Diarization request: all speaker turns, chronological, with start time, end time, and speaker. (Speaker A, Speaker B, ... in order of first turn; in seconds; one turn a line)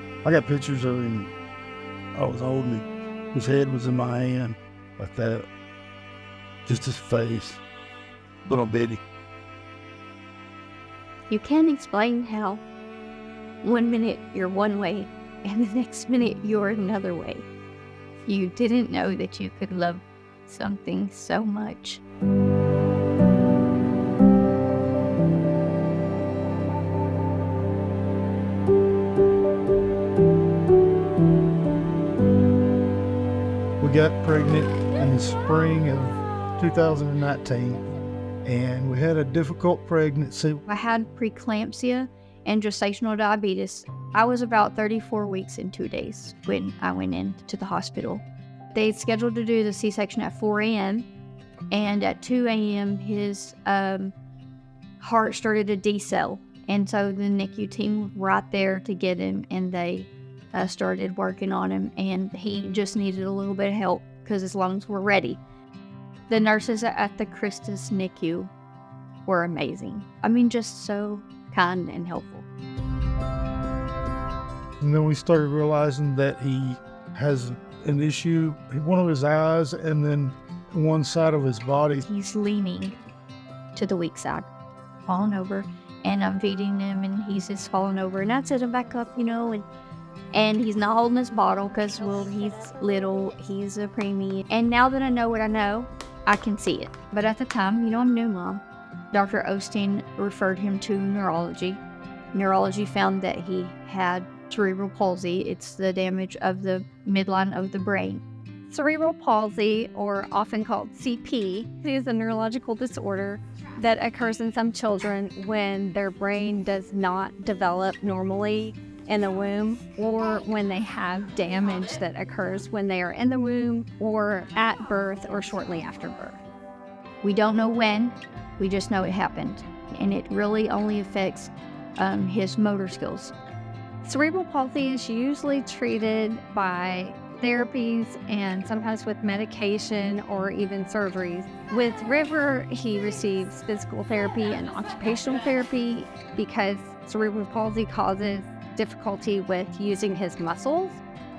Speaker A: 0.2-1.3
Speaker A: 2.1-5.5
Speaker A: 6.6-7.6
Speaker A: 8.4-9.0
Speaker B: 11.3-12.6
Speaker B: 13.6-17.5
Speaker B: 18.2-22.0
Speaker A: 33.8-37.8
Speaker A: 38.4-40.6
Speaker B: 40.7-51.1
Speaker B: 51.7-54.1
Speaker B: 55.0-65.4
Speaker B: 66.3-68.5
Speaker B: 69.2-72.5
Speaker A: 74.8-82.0
Speaker B: 82.0-82.9
Speaker B: 83.7-84.5
Speaker B: 85.0-89.7
Speaker B: 90.3-101.8
Speaker B: 102.3-108.2
Speaker C: 108.7-126.4
Speaker B: 127.2-133.3
Speaker C: 134.0-151.0